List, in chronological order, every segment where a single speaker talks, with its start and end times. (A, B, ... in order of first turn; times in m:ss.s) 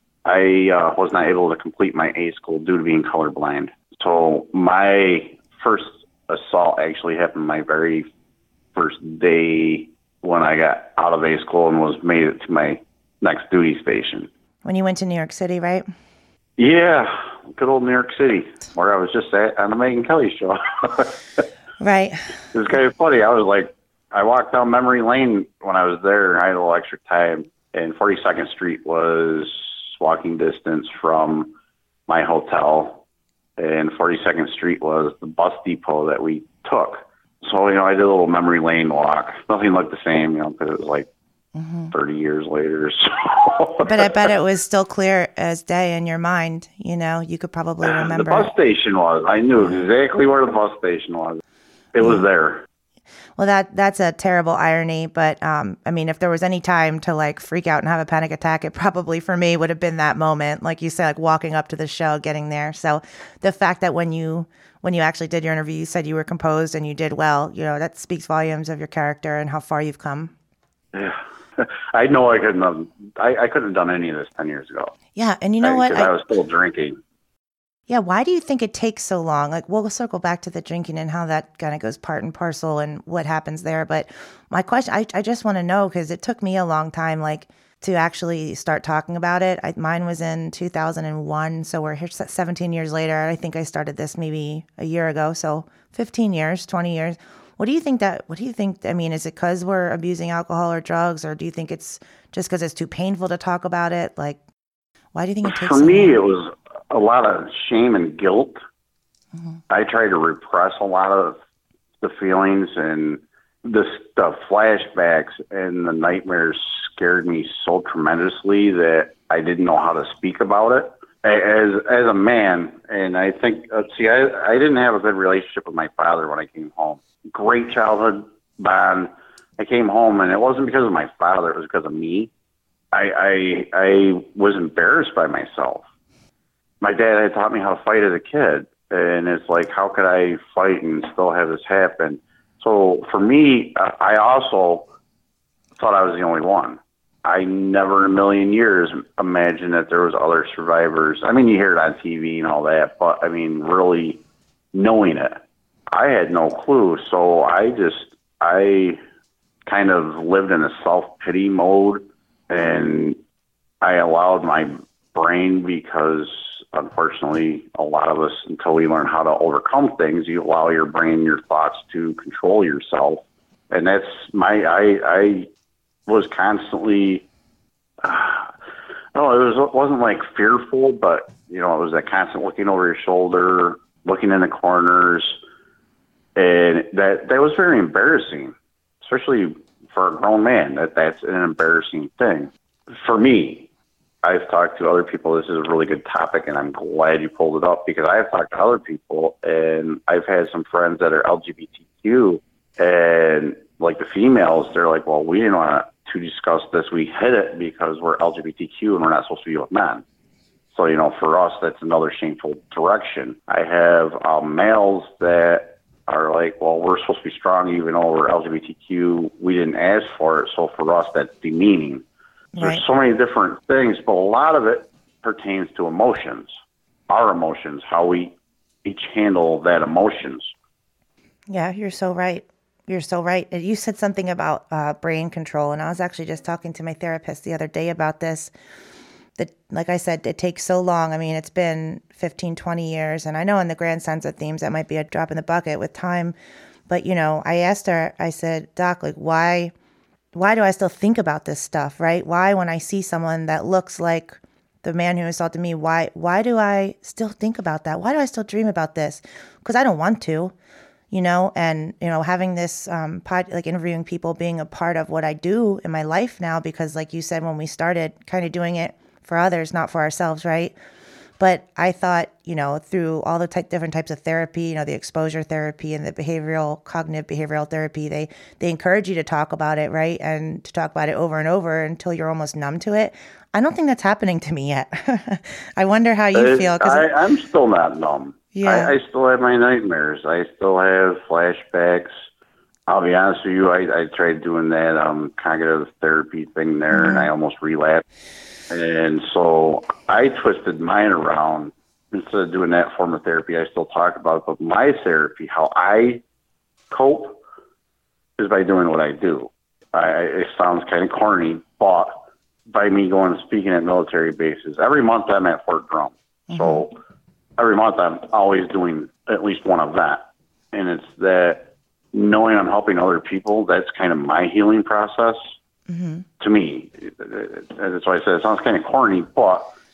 0:00.2-0:08.1 A
0:08.7-0:14.3 A
0:14.6-0:15.8 B
0:16.6-0:21.4 A
0:21.8-0:22.2 B
0:22.5-0:31.5 A
0:32.1-0:33.0 A
0:33.6-0:41.1 A
0:41.5-0:41.9 B
0:41.9-0:44.2 A
0:43.8-0:48.5 B
0:47.8-0:51.4 A
0:49.6-0:49.9 B
0:51.9-0:52.6 A
0:53.4-1:10.3 B
1:10.9-1:14.9 A
1:15.1-1:16.1 B
1:15.6-1:17.0 A
1:17.9-1:44.4 B
1:45.1-1:46.2 B
1:45.4-1:48.6 A
1:49.7-1:51.4 A
1:52.0-2:12.3 A
2:12.9-2:15.8 A
2:16.8-2:24.9 A
2:25.8-2:34.2 A
2:34.7-2:39.0 A
2:39.7-2:43.2 A
2:43.8-2:55.5 A
2:56.1-2:57.3 A
2:58.0-2:58.5 A
2:59.1-3:05.4 A
3:06.4-3:13.7 A
3:14.2-3:30.0 A
3:30.7-3:42.0 A
3:42.5-3:42.8 B
3:42.6-3:46.5 A
3:47.1-3:48.3 A
3:48.8-3:50.5 A
3:51.5-3:58.5 B
3:59.4-4:06.4 B
4:06.9-4:09.7 B
4:10.3-4:20.5 B
4:21.1-4:30.8 B
4:31.4-4:47.1 B
4:46.3-4:52.1 A
4:48.5-4:48.9 B
4:52.9-4:58.0 A
4:56.9-4:57.3 B
4:58.7-5:06.2 A
5:06.9-5:07.4 A
5:08.4-5:17.0 A
5:16.5-5:16.8 B
5:17.6-5:25.4 A
5:25.9-5:26.2 B
5:26.4-5:29.7 A